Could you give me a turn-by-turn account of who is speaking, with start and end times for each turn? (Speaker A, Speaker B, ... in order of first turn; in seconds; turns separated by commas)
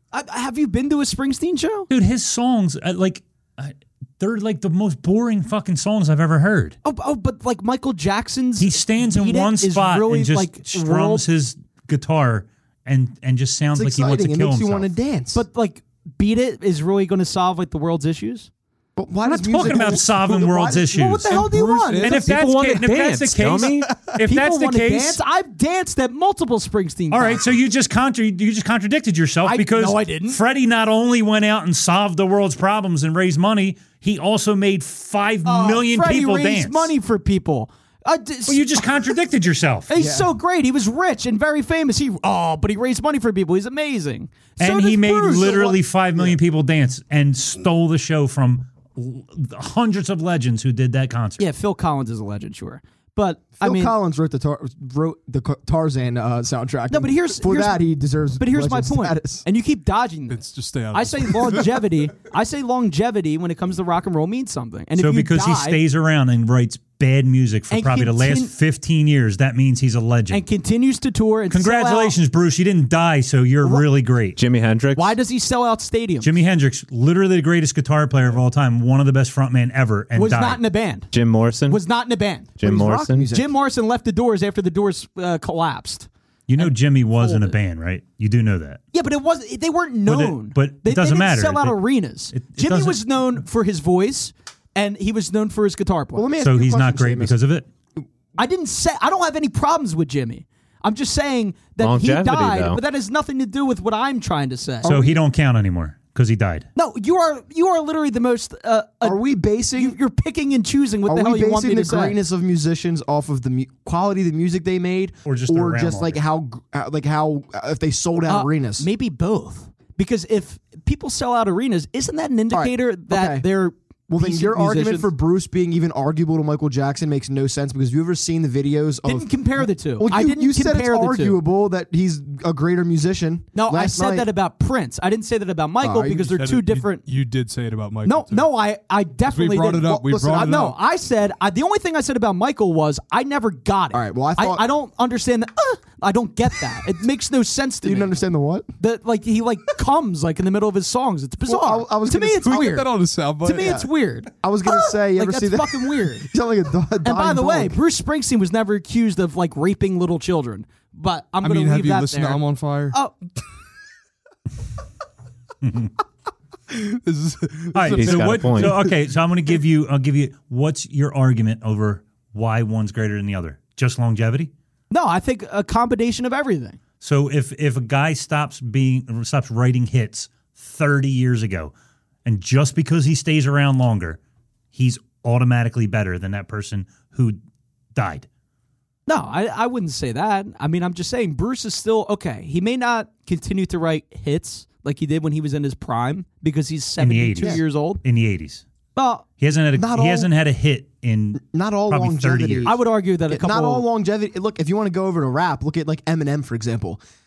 Speaker A: 0.1-1.9, Speaker B: 1.9-6.8, Speaker A: 6.8-11.2, Speaker B: 8.6-14.9, Speaker C: 13.7-15.4, Speaker A: 15.3-18.5, Speaker C: 18.9-21.0, Speaker B: 19.3-21.4, Speaker A: 20.9-22.2, Speaker D: 21.3-22.5, Speaker B: 22.0-25.2, Speaker E: 22.2-23.9, Speaker D: 23.6-24.2, Speaker A: 24.2-27.4, Speaker B: 27.1-36.9, Speaker A: 29.4-30.4, Speaker A: 35.4-38.9, Speaker B: 38.5-39.9, Speaker A: 39.9-45.8, Speaker C: 39.9-40.3, Speaker B: 44.6-51.4, Speaker A: 51.4-53.9, Speaker C: 53.6-59.5, Speaker A: 56.9-57.8, Speaker A: 58.4-60.4, Speaker D: 60.3-61.9, Speaker A: 60.9-65.8, Speaker B: 65.0-70.4, Speaker A: 67.7-68.5, Speaker A: 70.3-72.2, Speaker B: 71.5-74.4, Speaker E: 74.3-75.1, Speaker A: 74.9-76.3, Speaker B: 76.2-80.6, Speaker A: 80.1-81.1, Speaker E: 81.1-81.8, Speaker A: 81.7-82.6, Speaker E: 82.6-83.3, Speaker C: 82.6-83.5, Speaker A: 83.3-87.5, Speaker B: 86.5-88.8, Speaker A: 88.9-96.3, Speaker B: 90.0-91.8, Speaker B: 92.3-93.4, Speaker C: 96.1-97.4, Speaker B: 96.4-97.7, Speaker A: 98.4-105.0, Speaker E: 101.8-102.8, Speaker C: 104.8-105.1, Speaker B: 104.8-106.7, Speaker A: 106.8-109.2, Speaker C: 109.0-110.0, Speaker A: 109.7-112.2, Speaker C: 111.1-118.9, Speaker B: 115.2-116.2, Speaker A: 118.3-125.1, Speaker C: 122.5-123.5, Speaker C: 124.1-134.3, Speaker A: 129.1-131.4, Speaker A: 133.5-137.0, Speaker C: 135.8-136.3, Speaker D: 136.3-138.5, Speaker A: 138.0-148.1, Speaker D: 139.2-140.8, Speaker C: 143.9-144.7, Speaker C: 147.8-148.7, Speaker A: 148.8-156.3, Speaker C: 151.4-152.7, Speaker D: 152.4-153.8, Speaker C: 153.5-153.9, Speaker C: 154.4-157.8, Speaker A: 157.0-163.1, Speaker D: 161.4-162.9, Speaker B: 165.6-165.9, Speaker D: 166.7-168.9, Speaker B: 167.7-174.5, Speaker E: 167.9-168.8, Speaker A: 174.9-176.8, Speaker B: 177.0-181.7, Speaker B: 182.2-184.2, Speaker B: 184.7-187.4, Speaker B: 187.9-188.2, Speaker A: 189.1-198.0, Speaker B: 197.0-198.6, Speaker A: 198.9-199.2, Speaker B: 199.4-202.8, Speaker C: 199.7-200.3, Speaker C: 201.3-207.0, Speaker A: 202.6-203.8